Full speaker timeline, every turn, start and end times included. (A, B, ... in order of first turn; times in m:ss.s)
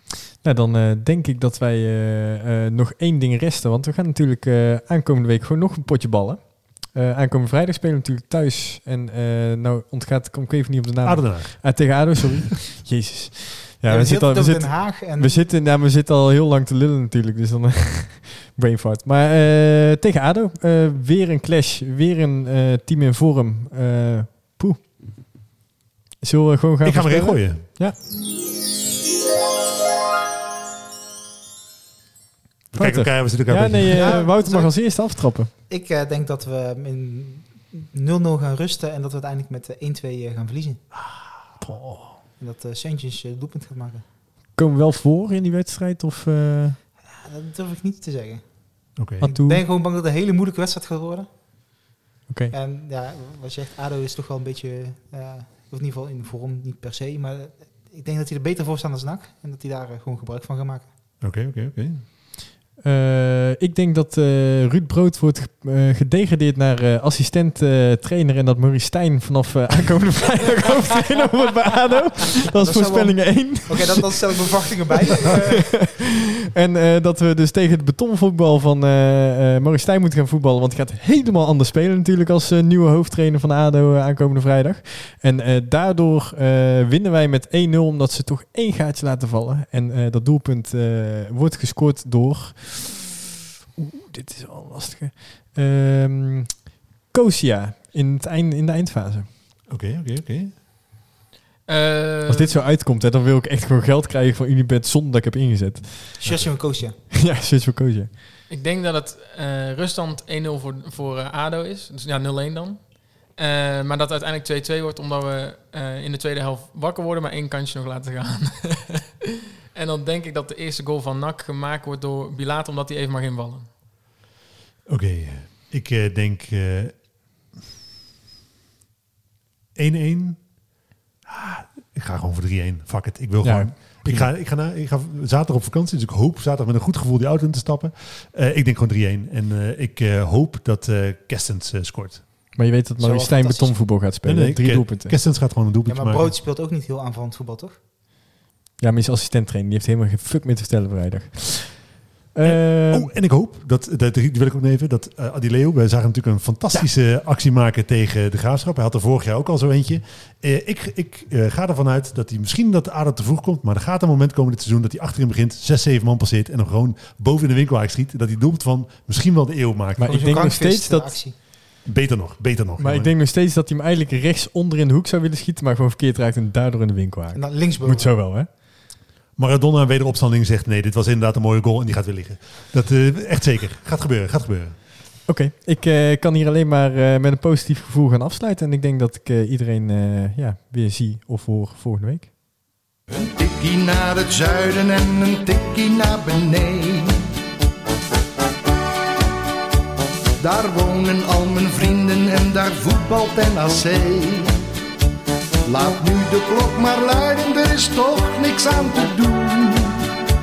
0:00.4-0:25.0 A
0:11.0-0:12.1 B
0:13.8-0:15.4 C
0:26.2-0:28.0 A
0:26.8-0:27.7 B
0:32.7-0:35.5 A
0:32.7-0:34.2 B
0:33.9-0:40.8 C
0:40.9-0:41.2 B
0:41.6-0:42.1 A
0:42.4-0:44.0 C
0:44.5-0:46.8 A
0:47.1-0:48.4 C
0:49.0-0:49.3 B
0:49.2-0:49.6 A
0:49.2-0:51.3 C
0:52.3-0:52.5 A
0:52.5-1:00.9 C
1:01.2-1:02.0 B
1:02.8-1:33.1 A
1:12.5-1:15.8 C
1:33.8-1:39.3 A
1:39.7-1:40.6 B
1:41.7-1:42.5 D
1:42.3-1:46.2 A
1:46.2-1:47.0 C
1:46.2-1:46.5 B
1:47.1-1:48.1 A
1:48.5-1:59.1 D
1:59.7-2:03.7 D
2:04.9-2:07.0 B
2:09.8-2:10.5 B
2:11.2-2:22.4 B
2:13.4-2:14.3 A
2:22.5-2:25.1 A
2:23.0-2:23.9 C
2:24.2-2:26.3 B
2:25.9-2:27.8 C
2:28.8-2:33.1 A
2:32.4-2:50.4 B
2:50.0-2:51.2 A
2:50.1-2:51.3 C
2:51.8-2:53.1 B
2:52.8-2:58.5 A
2:57.3-2:58.1 C
2:59.4-3:04.8 B
3:05.2-3:12.3 A
3:13.1-3:17.2 E
3:20.4-3:24.5 E
3:25.6-3:30.1 E